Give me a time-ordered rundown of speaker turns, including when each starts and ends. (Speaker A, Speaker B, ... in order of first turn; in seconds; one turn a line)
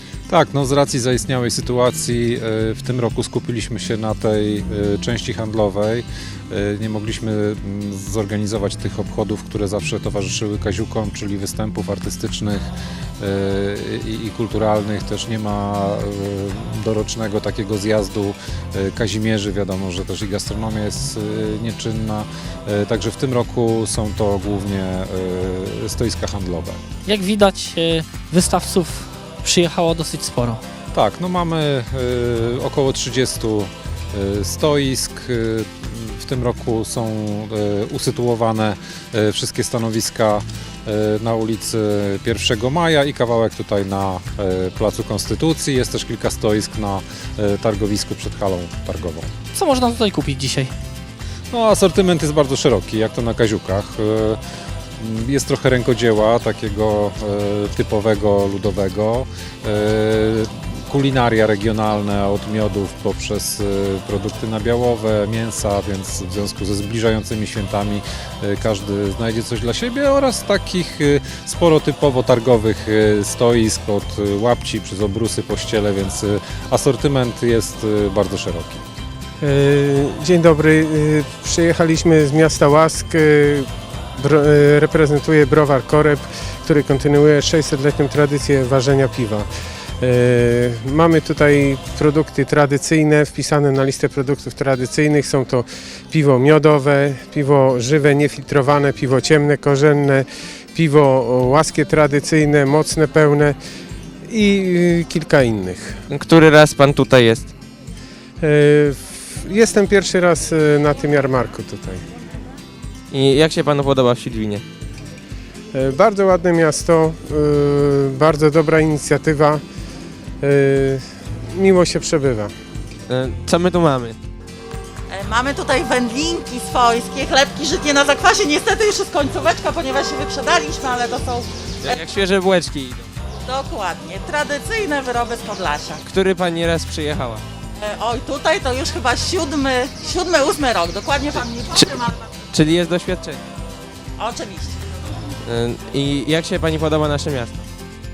Speaker A: 0.3-12.7
Speaker A: 13.2-26.8
Speaker B: 27.1-30.6
Speaker A: 30.9-49.3
Speaker B: 49.5-50.7
Speaker A: 51.5-54.4
Speaker A: 55.0-78.8
Speaker C: 79.4-89.5
Speaker C: 90.0-103.6
Speaker C: 104.3-106.0
Speaker D: 106.1-107.5
Speaker C: 108.4-112.0
Speaker D: 113.1-114.6
Speaker C: 115.7-119.6
Speaker C: 120.4-122.5
Speaker D: 123.1-124.2
Speaker E: 125.1-132.1
Speaker D: 131.8-133.1
Speaker E: 133.4-136.0
Speaker D: 136.1-137.4
Speaker E: 137.8-142.3
Speaker D: 142.5-143.4
Speaker E: 144.2-144.8
Speaker D: 145.4-147.6